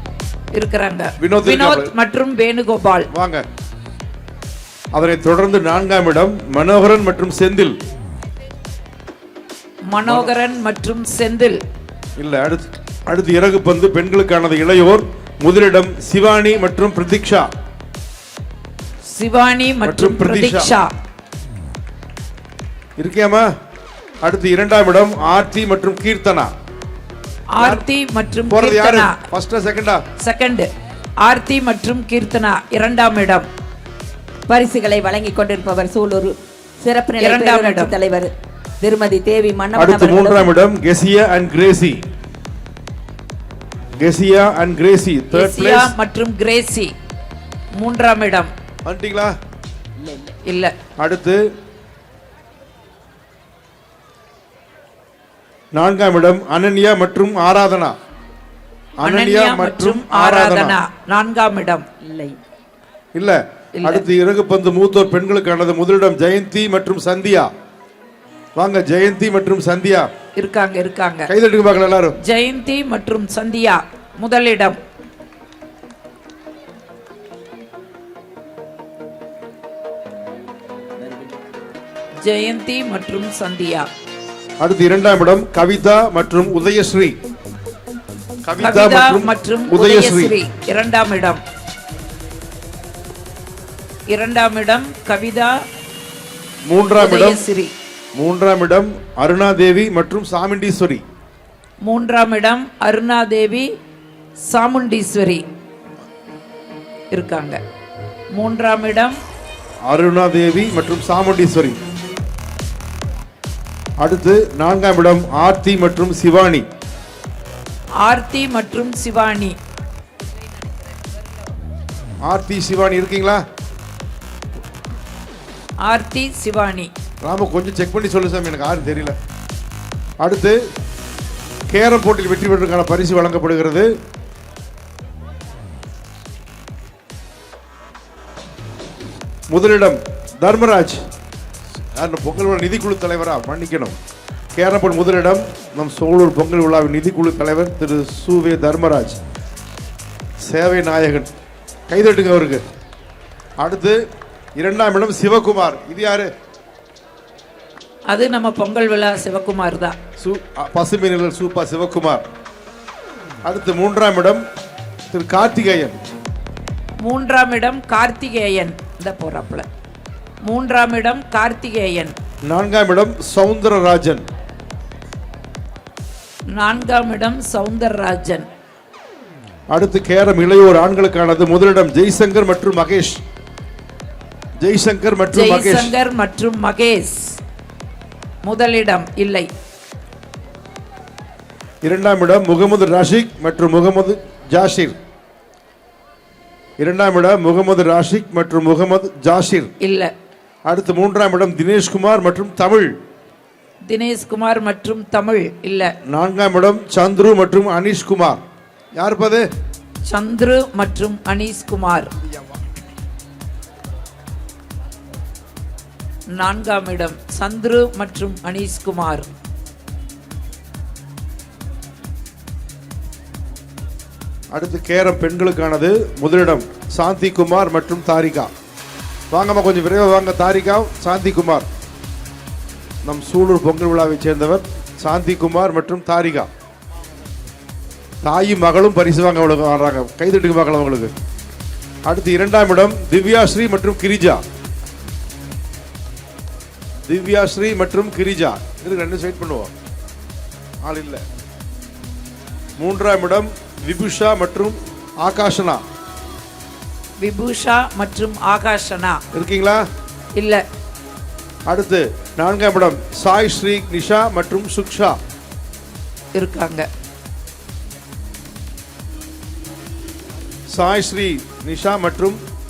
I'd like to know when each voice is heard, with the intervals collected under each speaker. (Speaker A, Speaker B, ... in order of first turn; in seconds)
Speaker A: 0.5-3.1, 9.9-11.6, 19.1-20.9, 27.6-29.2, 30.2-30.7, 31.2-33.5, 37.2-37.9, 45.3-46.9, 47.8-48.5, 50.5-50.7, 59.0-61.8, 70.3-71.3, 72.2-74.8, 82.2-83.9, 88.6-91.4, 94.1-95.6, 97.0-97.7, 101.8-103.7, 104.4-105.4, 107.1-107.6, 108.3-109.2, 118.0-119.5, 125.8-126.9, 158.1-159.9, 167.0-169.7, 170.4-172.1, 176.5-178.4, 185.3-187.4, 188.4-189.5, 199.8-200.1, 203.9-205.9, 210.1-212.1, 216.3-219.3, 257.2-259.2, 260.3-260.6, 266.3-266.9
Speaker B: 1.2-1.9, 3.1-3.5, 4.9-7.8, 10.0-10.3, 12.2-17.5, 19.8-20.7, 23.0-23.5, 24.2-26.5, 27.6-27.8, 28.5-30.0, 39.8-42.0, 44.0-45.9, 48.8-49.3, 51.0-51.5, 55.7-58.0, 59.0-60.8, 63.1-67.5, 68.6-70.1, 71.3-72.2, 84.6-87.1, 88.4-90.3, 96.7-97.4, 98.1-101.0, 109.8-111.8, 114.0-116.6, 122.2-123.4, 127.2-129.2, 130.2-130.6, 131.7-133.9, 139.5-141.0, 141.9-144.0, 144.6-149.2, 150.4-151.3, 151.9-152.6, 153.6-154.0, 154.6-156.3, 160.2-162.2, 163.4-164.4, 165.1-165.9, 172.5-174.2, 179.7-183.2, 184.6-185.9, 191.8-195.0, 196.8-199.7, 200.7-203.0, 206.0-208.4, 209.0-209.5, 224.5-228.5, 229.3-231.7, 233.0-236.5, 238.2-241.1, 242.1-244.4, 247.1-249.7, 250.8-251.2, 252.8-255.8, 259.3-259.9, 261.7-265.2, 270.7-272.4
Speaker C: 34.5-40.5, 50.0-50.3, 62.0-62.4, 81.0-81.3